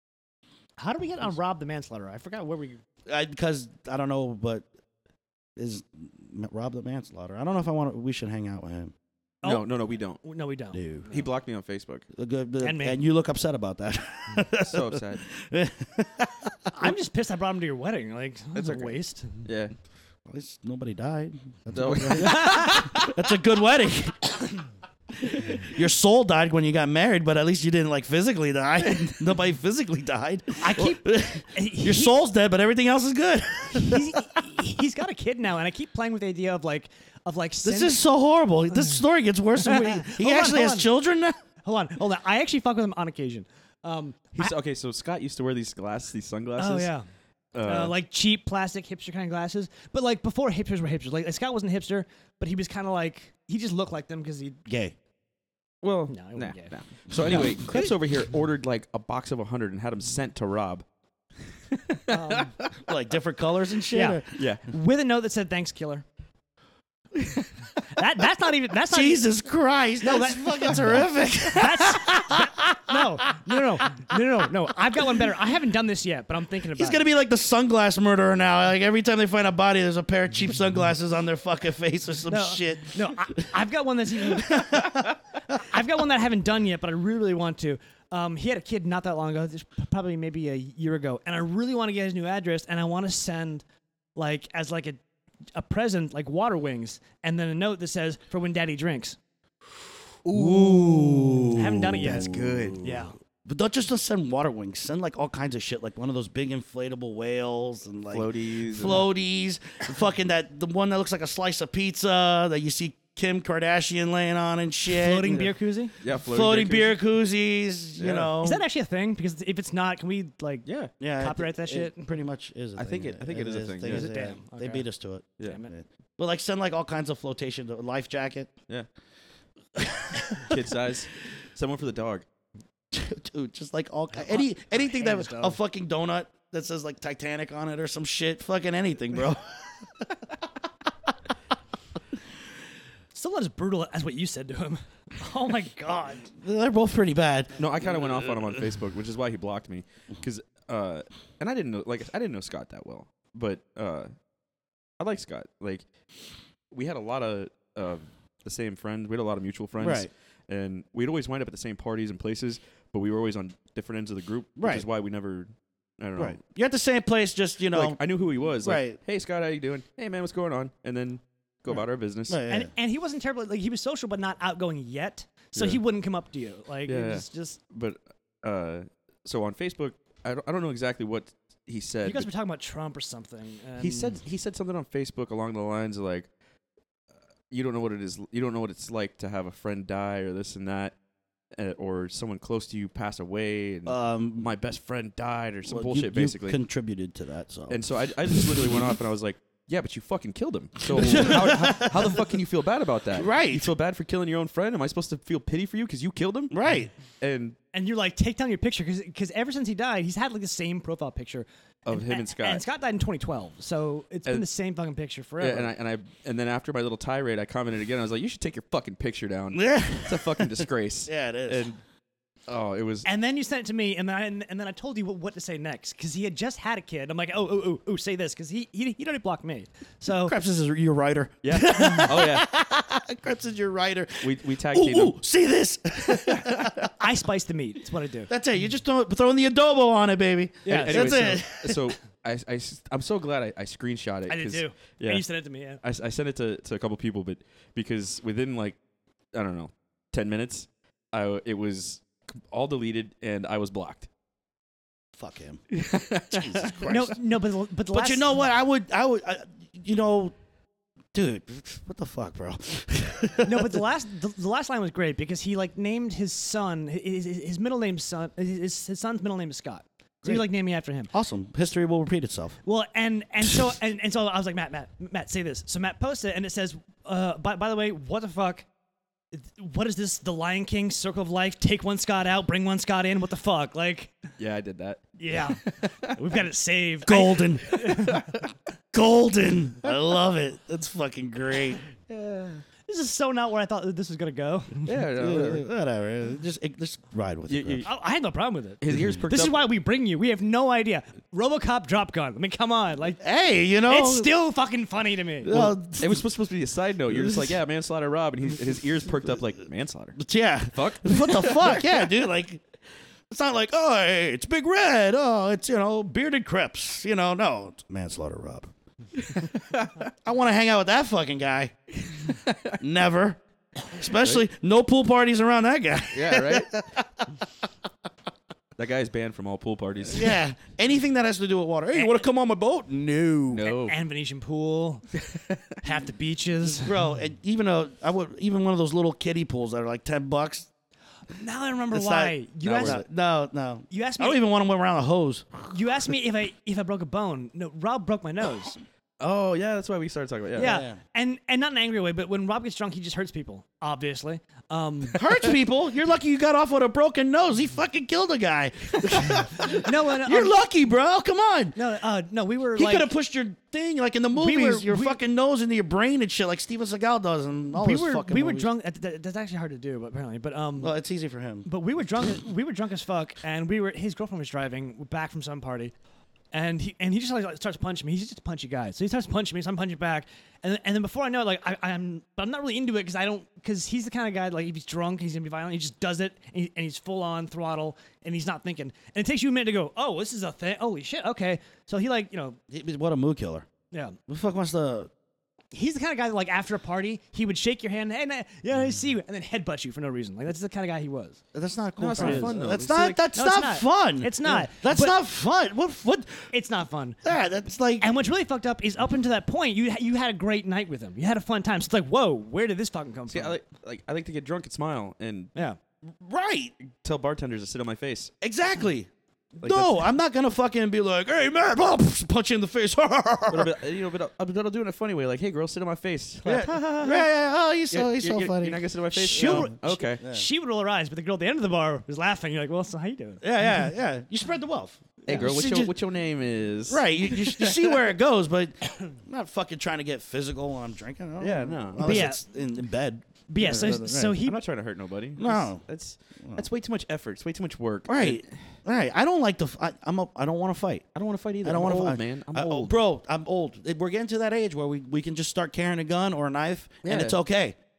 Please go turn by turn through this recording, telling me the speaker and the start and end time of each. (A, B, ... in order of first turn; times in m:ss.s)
0:00.8-0:02.8 A
0:03.1-0:04.7 B
0:05.6-0:08.9 B
0:09.4-0:11.3 A
0:09.4-0:10.2 C
0:10.7-0:11.1 B
0:11.1-0:12.1 C
0:12.2-0:16.7 B
0:12.6-0:13.0 A
0:14.6-0:15.2 C
0:16.7-0:19.4 A
0:18.6-0:19.7 C
0:20.3-0:34.6 B
0:21.7-0:23.1 C
0:22.2-0:23.0 A
0:30.6-0:32.2 A
0:33.7-0:38.0 A
0:37.6-0:41.4 B
0:39.6-0:40.9 A
0:41.6-0:44.5 A
0:44.4-0:46.9 C
0:46.6-0:47.0 A
0:47.5-0:47.9 C
0:47.6-0:54.6 A
0:54.7-0:55.0 B
0:55.8-1:00.8 C
0:56.1-0:56.7 A
0:57.2-0:57.9 A
1:01.7-1:02.8 C
1:02.1-1:02.5 A
1:02.8-1:04.4 B
1:03.9-1:06.0 A
1:04.4-1:04.6 C
1:07.9-1:09.3 A
1:08.9-1:13.3 B
1:10.0-1:10.8 A
1:11.6-1:17.0 A
1:16.7-1:23.5 B
1:22.3-1:33.6 A
1:24.2-1:25.2 B
1:34.2-1:35.0 A
1:35.5-1:39.2 A
1:40.2-1:42.8 C
1:40.4-1:55.5 B
1:41.5-1:43.1 A
1:48.1-1:49.1 C
1:54.9-1:55.9 A
1:56.0-1:57.0 C
1:56.2-1:58.6 B
1:58.0-1:58.3 C
1:58.4-2:00.7 A
2:00.7-2:00.9 C
2:01.0-2:08.5 B
2:01.2-2:02.1 A
2:02.8-2:04.1 C
2:03.9-2:04.9 A
2:05.4-2:05.7 A
2:09.8-2:10.6 B
2:10.3-2:12.3 C
2:12.9-2:20.1 B
2:14.1-2:15.6 A
2:23.1-2:26.3 A
2:26.3-2:28.3 B
2:27.6-2:34.1 C
2:35.0-2:35.8 C
2:36.7-2:46.4 C
2:39.8-2:40.1 B
2:44.6-2:44.8 B
2:46.2-2:48.0 B
2:47.7-2:52.4 C
2:48.6-2:49.0 B
2:52.3-2:52.7 B
2:52.5-2:57.6 A
2:55.6-2:55.8 C
2:56.9-3:02.3 C
3:02.0-3:04.2 A
3:03.8-3:06.3 C
3:07.5-3:11.0 C
3:11.6-3:16.6 C
3:13.9-3:14.5 B
3:15.7-3:18.9 B
3:17.7-3:26.6 C
3:20.9-3:22.2 B
3:23.1-3:23.7 B
3:26.5-3:26.9 B
3:27.2-3:27.6 C
3:27.7-3:35.7 A
3:31.9-3:32.6 C
3:35.4-3:41.8 C
3:39.5-3:41.6 B
3:42.5-3:43.1 C
3:43.0-3:50.4 A
3:50.2-3:56.9 B
3:51.4-3:52.5 C
3:54.2-3:55.2 C
3:56.1-3:56.7 C
3:57.0-3:58.3 A
3:58.3-4:01.9 B
4:00.7-4:01.4 A
4:00.7-4:05.2 C
4:04.3-4:05.8 A
4:05.8-4:08.8 C
4:09.3-4:14.1 C
4:15.1-4:15.6 B
4:15.7-4:16.9 C
4:16.3-4:17.2 B
4:16.9-4:18.4 A
4:17.9-4:20.3 B
4:21.1-4:23.8 B
4:23.4-4:31.1 A
4:31.1-4:32.6 B
4:32.6-4:38.7 A
4:39.3-4:44.1 A
4:44.4-4:46.1 C
4:45.2-4:48.3 A
4:47.1-4:47.8 B
4:47.8-4:48.4 C
4:48.9-4:51.8 B
4:52.1-4:52.6 C
4:52.9-4:54.9 A
4:54.9-4:55.6 C
4:55.2-4:57.9 B
4:57.5-4:57.9 C
4:57.8-5:03.2 A
4:58.8-4:59.7 C
5:03.2-5:04.3 B
5:03.9-5:05.5 A
5:05.4-5:06.3 B
5:05.5-5:11.9 C
5:07.1-5:07.6 B
5:10.2-5:12.6 B
5:13.3-5:18.7 B
5:19.2-5:20.1 C
5:20.2-5:22.2 B
5:22.3-5:22.7 C
5:22.8-5:27.3 B
5:24.2-5:24.4 C
5:26.1-5:26.9 C
5:28.8-5:30.4 C
5:30.1-5:33.7 B
5:33.5-5:34.0 C
5:33.7-5:35.0 A
5:35.2-5:35.8 C
5:35.8-5:37.0 A
5:36.6-5:40.7 B
5:41.3-5:43.0 A
5:41.9-5:45.6 B
5:42.6-5:43.0 C
5:43.9-5:44.4 A
5:45.7-5:48.8 A
5:49.2-5:50.8 C
5:50.6-5:55.2 A
5:50.6-5:51.0 B
5:55.2-6:01.8 B
5:59.7-6:00.5 A
6:01.8-6:03.1 A
6:02.8-6:08.7 B
6:04.4-6:05.2 A
6:07.8-6:10.9 A
6:10.8-6:11.7 B
6:11.7-6:15.9 A
6:16.5-6:32.6 A
6:32.7-6:33.7 B
6:33.9-6:34.2 A
6:34.3-6:35.1 B
6:35.7-6:41.4 A
6:41.5-6:46.5 B
6:42.0-6:43.2 C
6:42.2-6:42.6 A
6:43.3-6:45.2 A
6:46.5-6:47.2 A
6:47.2-6:48.1 B
6:48.0-6:53.6 A
6:53.3-6:55.5 C
6:56.1-6:56.7 B
6:56.8-6:58.3 C
6:58.4-6:59.1 B
6:59.6-6:59.9 C
6:59.6-7:03.7 B
7:03.5-7:06.7 C
7:06.4-7:07.2 A
7:06.4-7:10.5 B
7:07.9-7:10.2 C
7:09.2-7:13.4 A
7:13.4-7:15.9 B
7:15.3-7:18.0 C
7:16.9-7:24.4 B
7:21.4-7:22.3 C
7:22.0-7:22.4 A
7:23.5-7:24.6 A
7:23.6-7:28.6 C
7:25.4-7:25.8 B
7:28.1-7:31.1 B
7:31.2-7:33.0 C
7:31.6-7:37.8 B
7:37.0-7:37.4 C